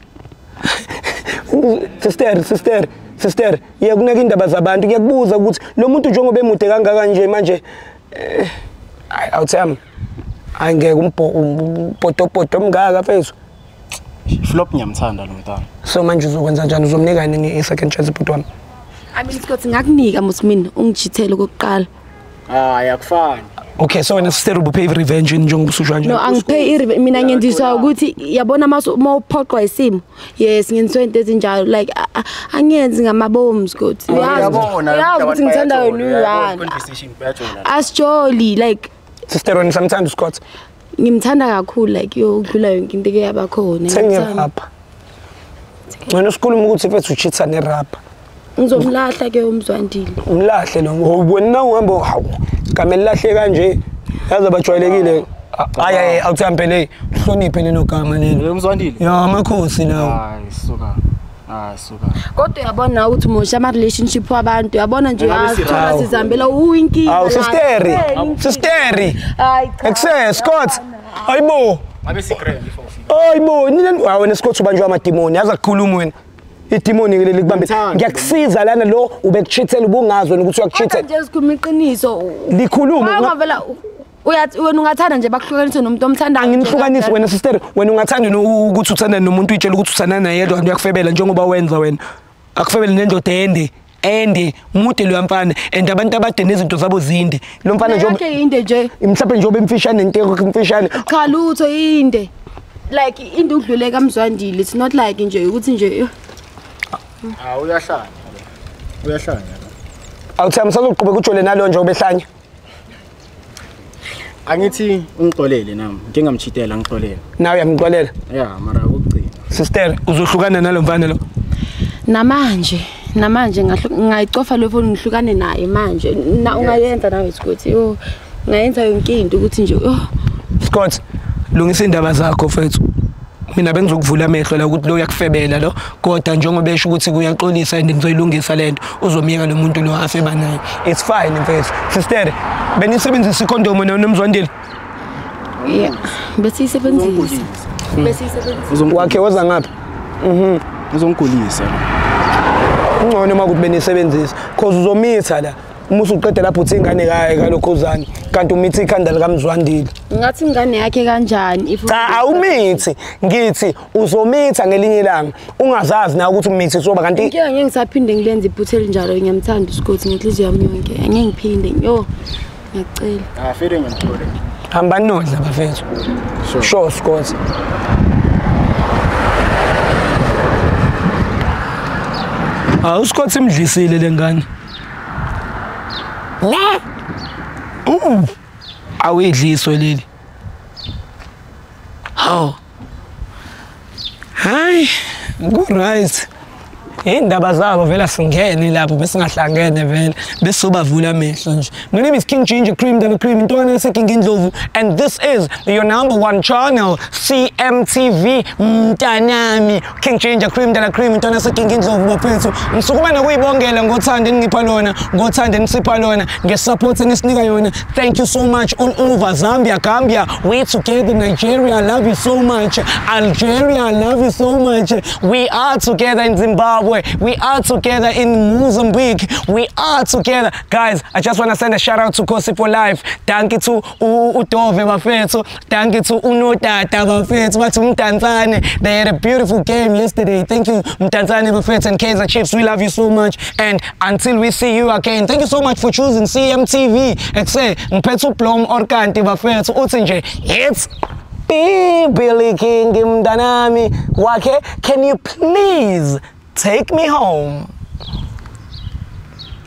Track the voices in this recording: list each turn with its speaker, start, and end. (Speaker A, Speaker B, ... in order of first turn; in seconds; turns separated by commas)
Speaker A: 0.7-8.5, Speaker A: 9.1-9.8, Speaker A: 10.6-13.3, Speaker B: 14.3-15.7, Speaker A: 15.8-18.4, Speaker C: 19.1-21.9, Speaker B: 22.5-23.5, Speaker A: 23.8-26.2, Speaker C: 26.0-36.8, Speaker B: 26.1-27.9, Speaker B: 34.1-37.9, Speaker A: 34.1-34.7, Speaker C: 37.6-38.9, Speaker A: 39.3-40.4, Speaker C: 41.0-44.5, Speaker A: 43.9-44.7, Speaker A: 46.1-48.0, Speaker C: 48.6-50.2, Speaker A: 50.2-58.5, Speaker B: 54.7-56.2, Speaker B: 58.3-59.0, Speaker A: 59.0-60.2, Speaker B: 59.9-62.2, Speaker C: 62.2-71.3, Speaker B: 65.2-66.5, Speaker A: 65.7-66.1, Speaker A: 67.0-69.2, Speaker B: 67.9-68.3, Speaker A: 69.8-71.8, Speaker B: 72.0-73.1, Speaker A: 73.1-76.1, Speaker A: 76.7-81.0, Speaker B: 77.4-78.4, Speaker C: 80.7-87.2, Speaker A: 82.5-83.3, Speaker A: 86.4-92.0, Speaker A: 92.5-98.2, Speaker C: 97.8-98.9, Speaker A: 99.0-101.1, Speaker C: 100.9-102.3, Speaker C: 102.9-106.1, Speaker B: 107.4-108.4, Speaker B: 109.0-109.7, Speaker A: 110.4-112.2, Speaker B: 114.5-117.2, Speaker A: 117.4-118.1, Speaker B: 118.3-119.5, Speaker A: 119.5-121.2, Speaker C: 122.1-130.1, Speaker B: 126.4-126.8, Speaker A: 130.6-131.0, Speaker A: 131.5-132.8, Speaker A: 133.5-144.5, Speaker B: 145.6-146.1, Speaker C: 145.6-147.4, Speaker B: 146.8-149.2, Speaker C: 148.0-148.8, Speaker A: 148.9-150.6, Speaker B: 150.9-151.9, Speaker A: 153.0-159.9, Speaker C: 160.1-162.8, Speaker A: 161.9-167.3, Speaker C: 167.2-172.1, Speaker C: 172.7-173.3, Speaker B: 173.3-174.4, Speaker A: 174.7-175.8, Speaker B: 176.4-176.7, Speaker A: 176.6-177.3, Speaker A: 182.8-184.4, Speaker A: 186.4-186.8, Speaker A: 187.8-188.3, Speaker A: 189.0-190.1, Speaker A: 192.2-192.6, Speaker A: 194.4-196.3, Speaker A: 197.0-250.9, Speaker A: 251.5-257.7